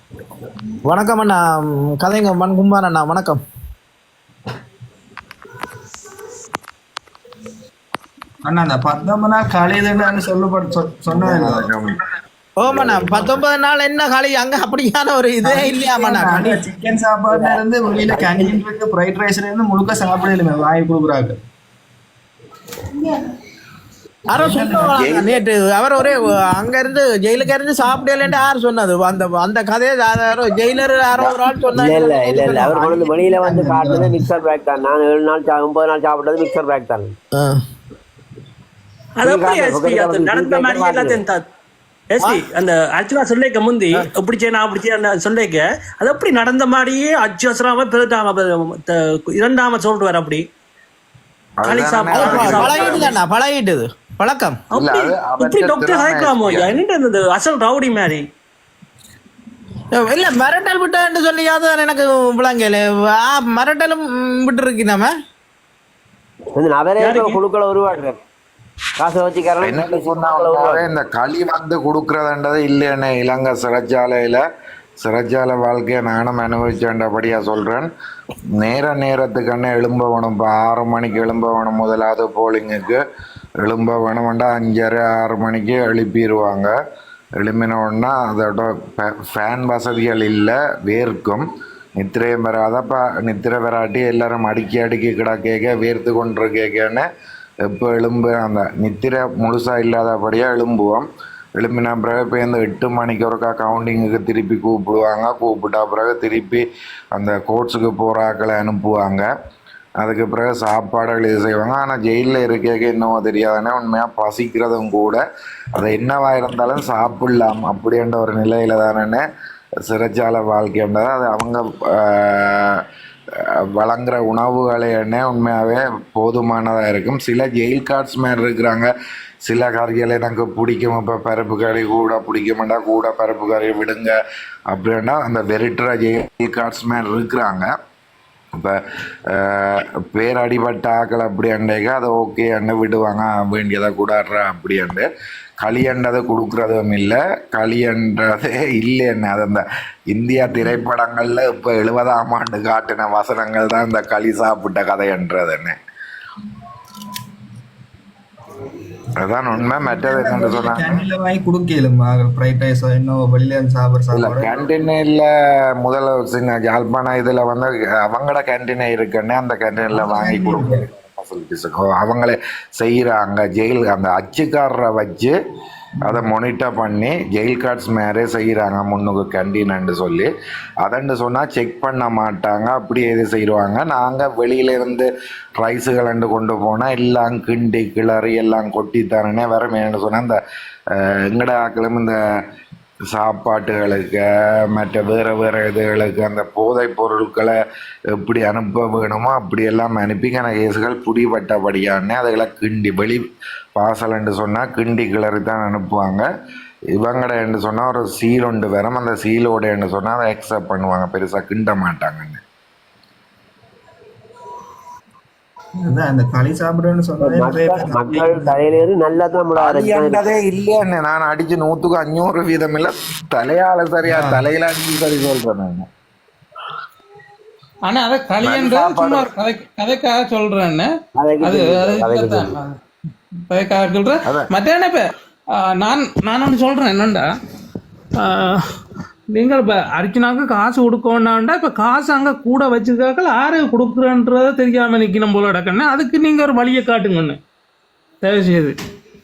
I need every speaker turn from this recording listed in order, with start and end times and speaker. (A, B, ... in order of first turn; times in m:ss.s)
0:00.9-0:03.4 A
0:08.4-0:11.7 B
0:11.1-0:12.0 C
0:12.6-0:16.6 A
0:12.7-0:13.4 C
0:15.4-0:21.4 B
0:17.3-0:18.4 D
0:24.3-0:32.6 A
0:24.4-0:25.3 B
0:25.0-0:25.4 C
0:31.7-0:37.2 D
0:31.8-0:34.3 B
0:39.2-0:41.4 E
0:39.2-0:41.2 D
0:42.1-0:50.4 E
0:51.6-0:53.2 C
0:51.6-0:53.1 E
0:52.2-0:54.6 A
0:54.7-0:58.2 E
0:54.7-0:56.8 C
0:59.9-1:05.1 A
1:06.6-1:08.2 D
1:07.0-1:07.4 E
1:09.0-1:10.9 D
1:09.6-1:14.4 C
1:15.0-1:17.9 C
1:18.6-1:23.0 C
1:23.6-1:26.7 C
1:27.4-1:31.5 C
1:32.0-1:37.1 C
1:37.7-1:41.1 C
1:41.6-1:49.3 C
1:50.0-1:55.2 C
1:55.8-1:59.2 C
1:59.9-2:02.8 C
2:03.7-2:08.9 C
2:09.4-2:14.2 C
2:14.7-2:17.7 C
2:19.3-2:25.1 C
2:25.6-2:35.8 C
2:39.2-2:41.1 C
2:39.8-2:44.7 B
2:44.1-2:55.4 C
2:49.9-2:50.8 B
2:56.0-3:00.3 C
3:00.8-3:05.1 C
3:05.6-3:10.4 C
3:10.9-3:12.2 C
3:13.1-3:17.5 C
3:18.2-3:23.2 C
3:23.8-3:26.3 C
3:27.0-3:32.4 C
3:35.8-3:38.7 B
3:37.2-3:40.2 D
3:39.6-3:45.9 C
3:44.1-3:44.4 B
3:47.9-3:52.8 F
3:48.4-3:49.3 C
3:51.2-3:52.6 D
3:53.5-3:55.0 F
3:55.7-3:57.3 F
3:58.2-3:58.6 F
3:59.3-4:07.4 F
4:08.2-4:08.8 F